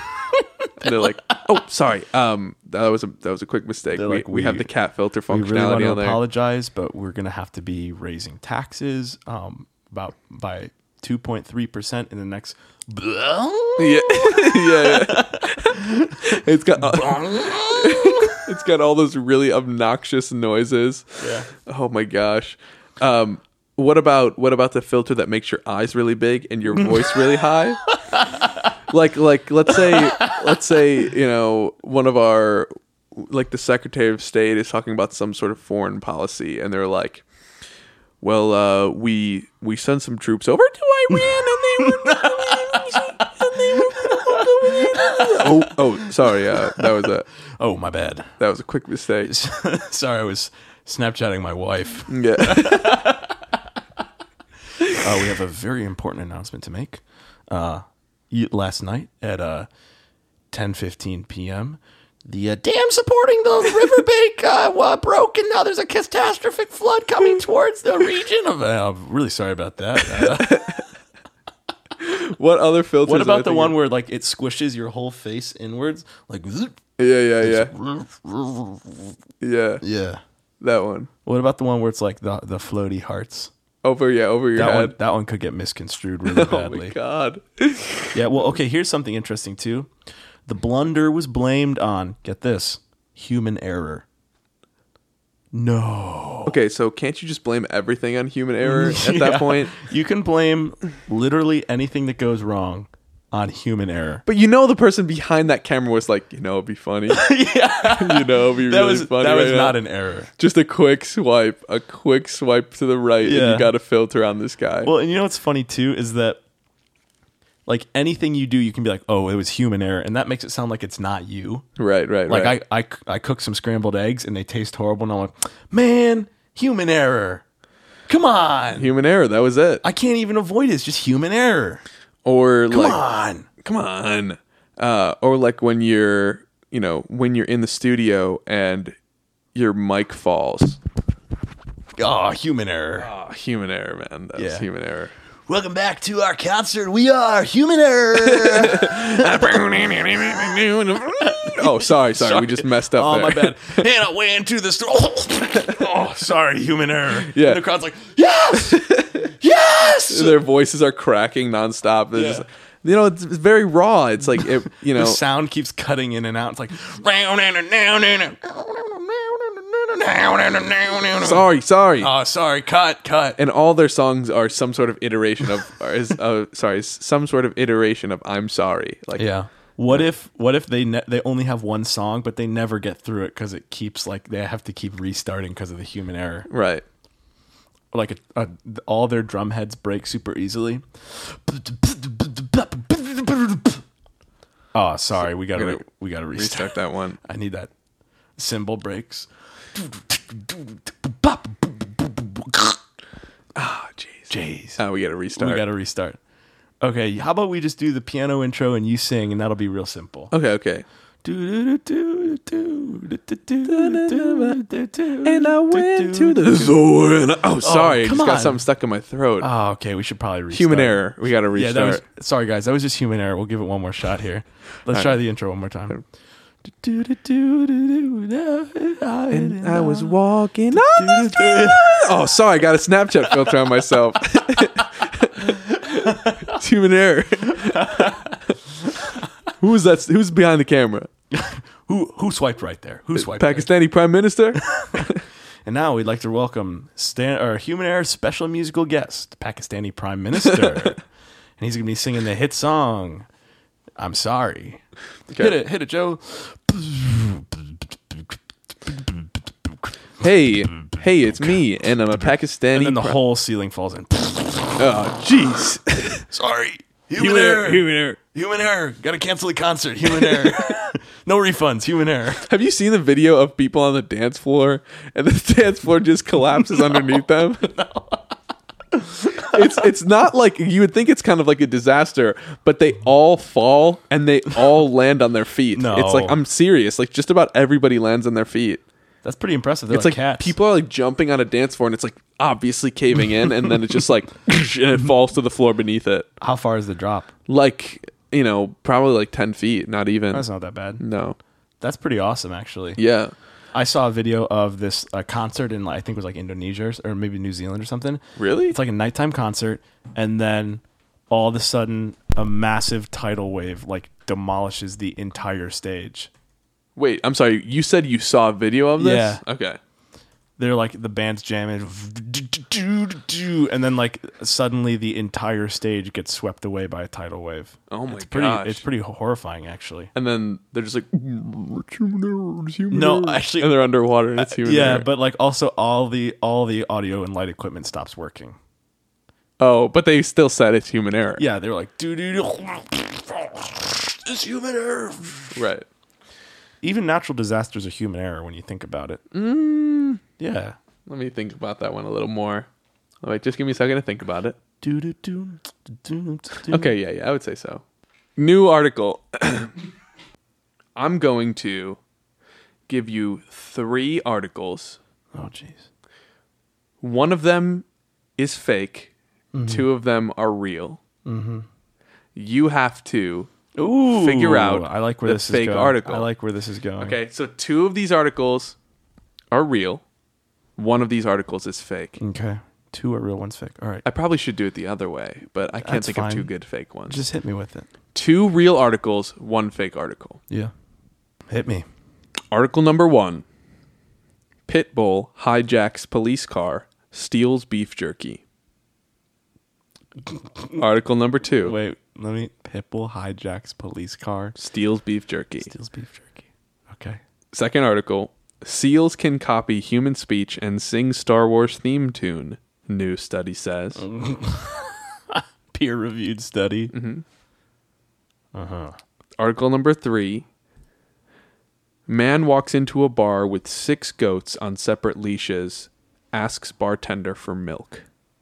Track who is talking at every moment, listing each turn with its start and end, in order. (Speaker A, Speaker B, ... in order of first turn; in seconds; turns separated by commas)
Speaker A: 0.2-1.2, Speaker B: 0.8-6.2, Speaker A: 3.9-4.7, Speaker A: 5.3-18.4, Speaker B: 13.8-27.9, Speaker A: 21.2-21.5, Speaker A: 26.8-27.3, Speaker A: 27.9-28.6, Speaker B: 28.9-37.2, Speaker A: 29.7-30.6, Speaker B: 38.2-47.3, Speaker A: 41.8-48.3, Speaker B: 48.4-49.4, Speaker A: 49.2-53.6, Speaker B: 52.1-53.0, Speaker A: 54.9-59.7, Speaker A: 60.5-70.8, Speaker B: 70.0-70.9, Speaker B: 72.0-73.8, Speaker A: 73.1-76.8, Speaker B: 77.0-77.7, Speaker A: 77.4-79.2, Speaker B: 79.4-79.8, Speaker A: 79.8-80.2, Speaker B: 80.6-81.1, Speaker A: 81.2-83.5, Speaker B: 83.8-85.0, Speaker A: 84.5-87.0, Speaker B: 86.3-88.2, Speaker A: 88.1-89.9, Speaker A: 90.5-94.0, Speaker A: 95.5-96.6, Speaker B: 96.5-99.8, Speaker A: 98.6-104.2, Speaker B: 104.3-107.3, Speaker A: 107.1-110.3, Speaker B: 107.9-109.8, Speaker B: 110.4-114.9, Speaker A: 113.2-113.8, Speaker A: 114.8-116.4, Speaker A: 117.7-121.7, Speaker B: 121.8-122.6, Speaker A: 122.3-127.4, Speaker A: 128.1-128.9, Speaker B: 128.8-129.8, Speaker A: 129.8-131.8, Speaker B: 132.2-133.0, Speaker A: 132.7-133.5, Speaker B: 133.6-138.9, Speaker B: 139.6-140.8, Speaker A: 141.9-143.1, Speaker B: 143.0-145.1, Speaker A: 144.3-144.7, Speaker A: 145.5-160.4, Speaker B: 148.3-153.5, Speaker B: 157.2-157.6, Speaker B: 158.6-159.3, Speaker B: 160.1-165.2, Speaker A: 162.1-162.4, Speaker A: 164.3-173.4, Speaker B: 171.2-172.1, Speaker B: 173.4-179.3, Speaker A: 179.2-186.5, Speaker B: 186.5-186.8, Speaker A: 187.9-193.8, Speaker A: 194.7-197.7, Speaker B: 195.6-195.8, Speaker B: 196.3-197.2, Speaker A: 198.4-202.8, Speaker B: 203.6-205.6, Speaker A: 204.3-204.8, Speaker A: 205.4-206.2, Speaker A: 206.8-210.3, Speaker B: 210.3-210.8, Speaker A: 211.2-216.8, Speaker B: 213.7-214.6, Speaker B: 215.2-219.5, Speaker A: 217.6-218.7, Speaker A: 219.4-226.0, Speaker B: 220.5-222.0, Speaker A: 226.7-232.2, Speaker B: 229.3-238.2, Speaker A: 233.3-233.6, Speaker A: 235.4-236.4, Speaker A: 237.6-238.4, Speaker B: 239.6-241.1, Speaker A: 241.3-243.7, Speaker B: 243.2-245.2, Speaker A: 244.6-245.1, Speaker A: 245.7-251.0, Speaker A: 251.6-253.3, Speaker A: 254.0-254.8, Speaker B: 255.3-255.6, Speaker A: 255.4-259.9, Speaker B: 260.2-263.2, Speaker A: 262.7-264.8, Speaker B: 264.8-266.3, Speaker A: 266.3-272.5, Speaker B: 267.2-268.2, Speaker B: 270.2-270.8, Speaker B: 272.5-277.7, Speaker A: 276.6-278.4, Speaker A: 278.9-279.7, Speaker B: 279.4-288.8, Speaker A: 285.7-286.4, Speaker A: 289.2-290.5, Speaker B: 289.9-296.3, Speaker A: 296.4-297.3, Speaker B: 297.5-300.5, Speaker A: 300.3-301.0, Speaker B: 301.0-301.4, Speaker A: 301.8-303.0, Speaker B: 303.0-303.3, Speaker A: 303.7-316.3, Speaker B: 308.4-308.8, Speaker B: 317.0-319.8, Speaker A: 319.0-319.4, Speaker A: 320.6-330.1, Speaker B: 327.9-328.9, Speaker B: 330.1-335.1, Speaker A: 332.9-338.6, Speaker B: 339.6-341.4, Speaker A: 341.4-345.6, Speaker B: 345.5-345.9, Speaker A: 346.8-349.2, Speaker B: 349.3-350.2, Speaker A: 350.4-350.8, Speaker B: 351.1-352.7, Speaker B: 353.2-354.6, Speaker A: 354.8-356.9, Speaker B: 356.7-357.8, Speaker B: 358.4-359.7, Speaker B: 361.0-362.0, Speaker B: 362.9-365.0, Speaker A: 365.3-365.9, Speaker B: 367.0-367.9, Speaker B: 368.4-369.1, Speaker A: 369.5-369.9, Speaker B: 369.7-371.0, Speaker A: 371.2-371.7, Speaker B: 372.4-373.5, Speaker A: 373.8-377.2, Speaker B: 374.1-376.3, Speaker B: 377.0-378.8, Speaker B: 379.5-380.0, Speaker B: 380.8-382.2, Speaker A: 382.2-384.0, Speaker B: 384.1-387.2, Speaker A: 385.8-386.5, Speaker A: 387.1-387.9, Speaker B: 388.1-390.4, Speaker A: 391.5-391.9, Speaker B: 392.5-393.4, Speaker B: 394.7-398.4, Speaker B: 400.8-401.8, Speaker A: 401.6-404.6, Speaker B: 404.6-405.7, Speaker A: 405.6-407.2, Speaker B: 407.5-414.1, Speaker A: 414.0-416.9, Speaker B: 416.9-417.2, Speaker A: 418.5-419.0, Speaker B: 419.4-420.5, Speaker B: 422.1-428.1